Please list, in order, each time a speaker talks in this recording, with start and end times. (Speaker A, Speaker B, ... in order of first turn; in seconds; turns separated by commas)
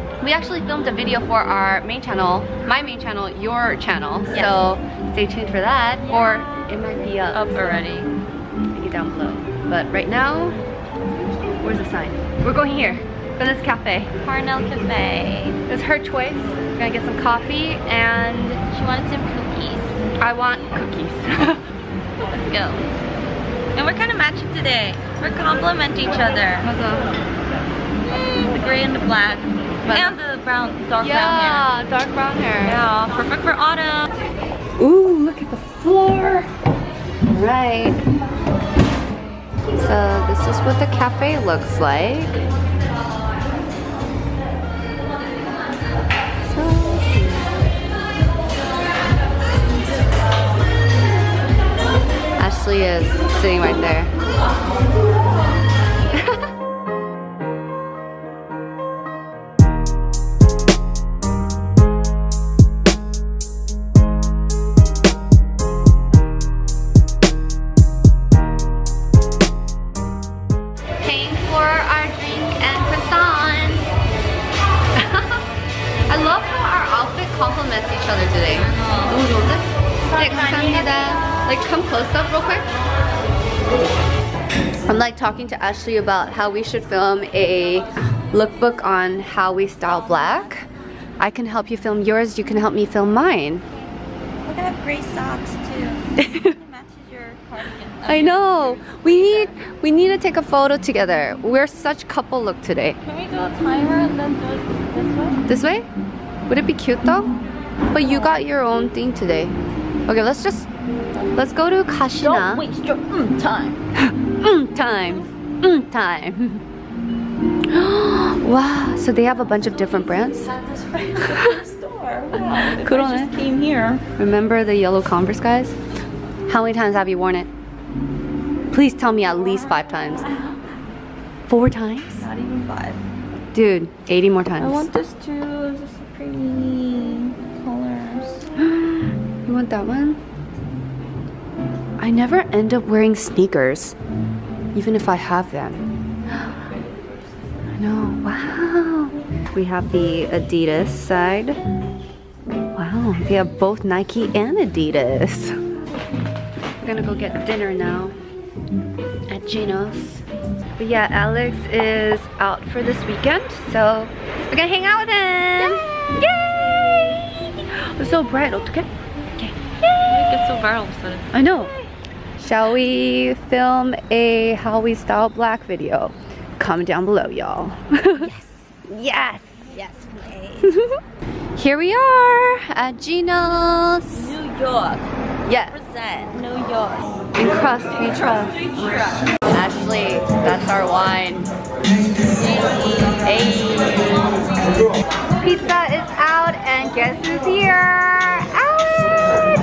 Speaker A: 0.2-7.8, Speaker B: 4.3-4.6, Speaker B: 7.3-8.1, Speaker A: 8.7-10.6, Speaker A: 11.6-14.1, Speaker B: 14.2-15.6, Speaker A: 15.7-18.6, Speaker B: 18.7-19.9, Speaker A: 20.2-21.6, Speaker B: 22.3-22.9, Speaker B: 23.8-26.7, Speaker A: 26.6-27.1, Speaker B: 28.1-31.7, Speaker A: 29.9-30.2, Speaker A: 31.0-32.8, Speaker B: 32.6-34.1, Speaker A: 34.8-36.5, Speaker A: 37.3-38.0, Speaker A: 39.8-42.4, Speaker A: 46.5-47.7, Speaker A: 52.4-54.1, Speaker A: 71.0-73.8, Speaker A: 75.0-75.4, Speaker A: 76.1-82.7, Speaker B: 78.7-79.1, Speaker B: 80.2-81.3, Speaker A: 84.9-90.7, Speaker A: 91.2-93.7, Speaker B: 94.5-99.5, Speaker A: 96.2-96.5, Speaker A: 98.1-103.0, Speaker B: 103.0-105.4, Speaker A: 105.5-105.9, Speaker A: 106.5-107.4, Speaker A: 107.9-109.5, Speaker B: 108.0-108.4, Speaker A: 110.1-110.7, Speaker A: 111.3-112.7, Speaker B: 112.2-113.8, Speaker A: 114.0-116.6, Speaker A: 117.7-120.5, Speaker B: 119.6-124.0, Speaker A: 122.6-123.3, Speaker A: 124.2-125.8, Speaker A: 126.5-127.5, Speaker A: 128.7-130.3, Speaker B: 130.1-130.5, Speaker A: 131.5-132.3, Speaker B: 132.2-133.0, Speaker A: 133.5-134.9, Speaker B: 134.6-138.4, Speaker A: 138.6-140.2, Speaker A: 142.0-144.0, Speaker A: 144.7-145.9, Speaker A: 147.8-151.6, Speaker A: 152.7-155.6, Speaker A: 156.8-158.2, Speaker A: 159.3-160.2, Speaker A: 160.8-166.2, Speaker B: 165.6-167.2, Speaker A: 167.7-169.6, Speaker B: 169.8-171.3, Speaker A: 171.3-171.7, Speaker A: 172.4-178.3, Speaker B: 178.2-178.6, Speaker A: 178.9-179.6, Speaker B: 179.7-180.8, Speaker A: 180.6-181.0, Speaker A: 181.6-184.4, Speaker B: 184.1-185.1, Speaker A: 185.5-185.8, Speaker B: 185.7-187.0, Speaker A: 187.3-188.6, Speaker B: 188.0-189.3, Speaker A: 189.5-191.5, Speaker B: 192.4-192.8, Speaker A: 193.2-194.2, Speaker A: 195.4-199.4